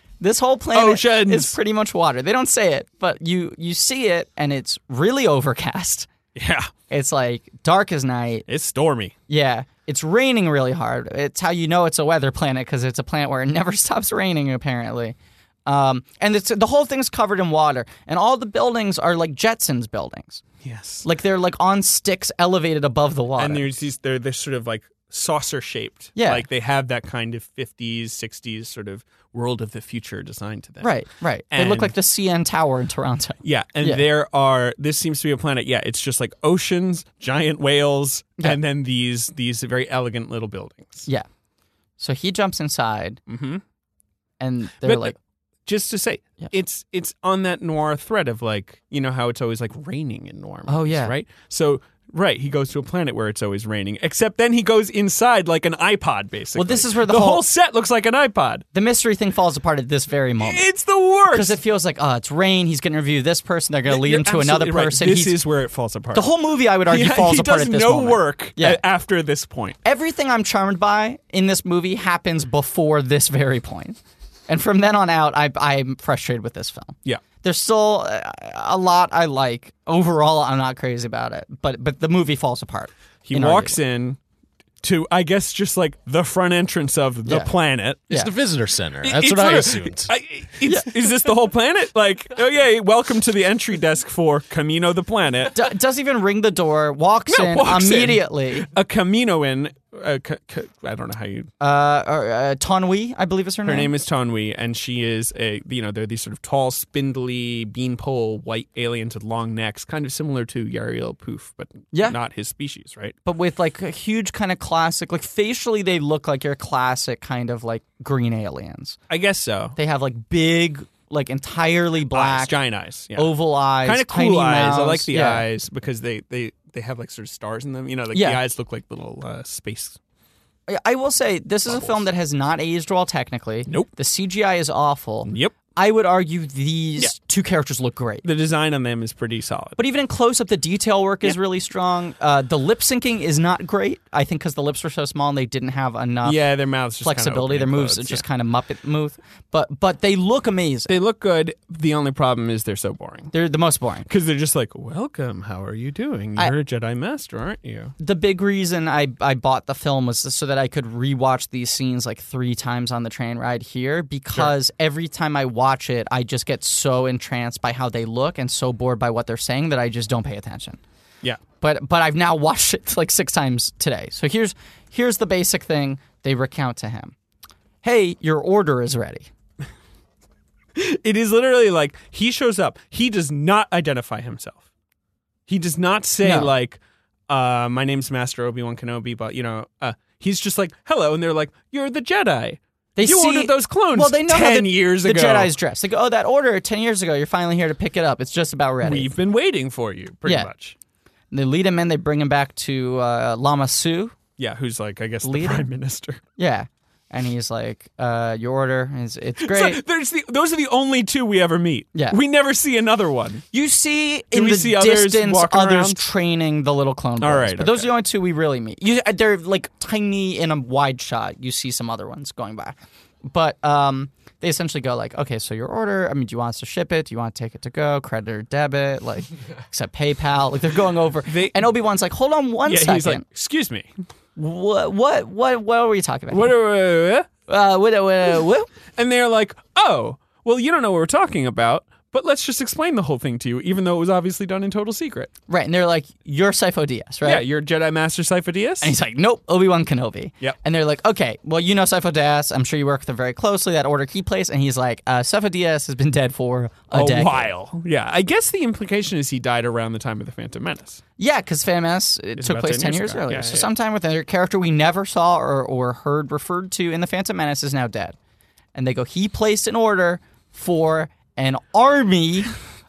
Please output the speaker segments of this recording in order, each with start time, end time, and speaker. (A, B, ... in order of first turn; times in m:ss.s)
0:00.2-0:06.1 A
0:00.7-0:01.6 B
0:06.4-0:06.7 B
0:06.9-0:08.5 A
0:08.5-0:09.2 B
0:09.3-0:15.2 A
0:15.7-0:20.4 A
0:20.6-0:21.0 B
0:21.0-0:23.6 A
0:23.4-0:31.0 B
0:26.2-0:26.4 A
0:30.8-0:34.0 A
0:31.5-0:31.9 B
0:33.4-0:41.1 B
0:42.0-0:43.2 A
0:43.3-0:43.6 B
0:44.4-0:45.2 A
0:44.8-0:45.2 B
0:45.7-0:58.6 B
0:50.7-0:51.1 A
0:56.6-0:57.4 A
0:58.7-1:00.7 A
1:00.4-1:01.6 B
1:01.3-1:05.4 A
1:03.9-1:06.3 B
1:06.1-1:08.8 A
1:06.9-1:09.8 B
1:09.8-1:23.8 A
1:23.3-1:24.2 B
1:24.8-1:28.1 B
1:28.1-1:30.1 C
1:29.0-1:35.7 B
1:30.6-1:30.9 A
1:35.5-1:38.7 A
1:37.3-1:41.5 B
1:41.6-1:43.9 A
1:43.6-1:53.2 B
1:51.9-1:52.2 A
1:53.2-1:59.0 A
1:59.1-1:59.8 B
1:59.8-2:02.5 A
2:02.1-2:10.0 B
2:03.2-2:05.5 A
2:08.1-2:08.4 A
2:10.7-2:18.3 A
2:11.7-2:12.0 B
2:15.2-2:15.5 B
2:18.2-2:19.8 B
2:19.8-2:26.4 A
2:26.2-2:28.2 B
2:27.0-2:30.9 A
2:30.9-2:33.3 B
2:33.3-2:34.1 A
2:34.1-2:38.0 B
2:38.0-2:50.8 A
2:51.6-2:57.2 A
2:57.8-2:59.3 A
3:00.8-3:04.6 B
3:05.5-3:15.5 B
3:06.2-3:06.5 A
3:13.0-3:19.1 A
3:18.8-3:20.8 B
3:21.3-3:24.2 A
3:24.4-3:26.2 B
3:25.2-3:25.7 A
3:26.4-3:29.8 A
3:29.4-3:33.4 B
3:33.5-3:53.2 A
3:34.3-3:36.0 B
3:37.2-3:37.9 B
3:51.3-3:51.7 B
3:52.7-3:53.9 B
3:54.4-3:56.6 A
3:56.3-3:57.3 B
3:57.5-3:58.7 A
3:59.0-4:05.3 B
4:05.5-4:07.4 A
4:07.2-4:08.9 B
4:08.8-4:17.5 A
4:16.9-4:21.0 B
4:21.2-4:28.2 A
4:22.4-4:23.7 B
4:28.8-4:32.5 A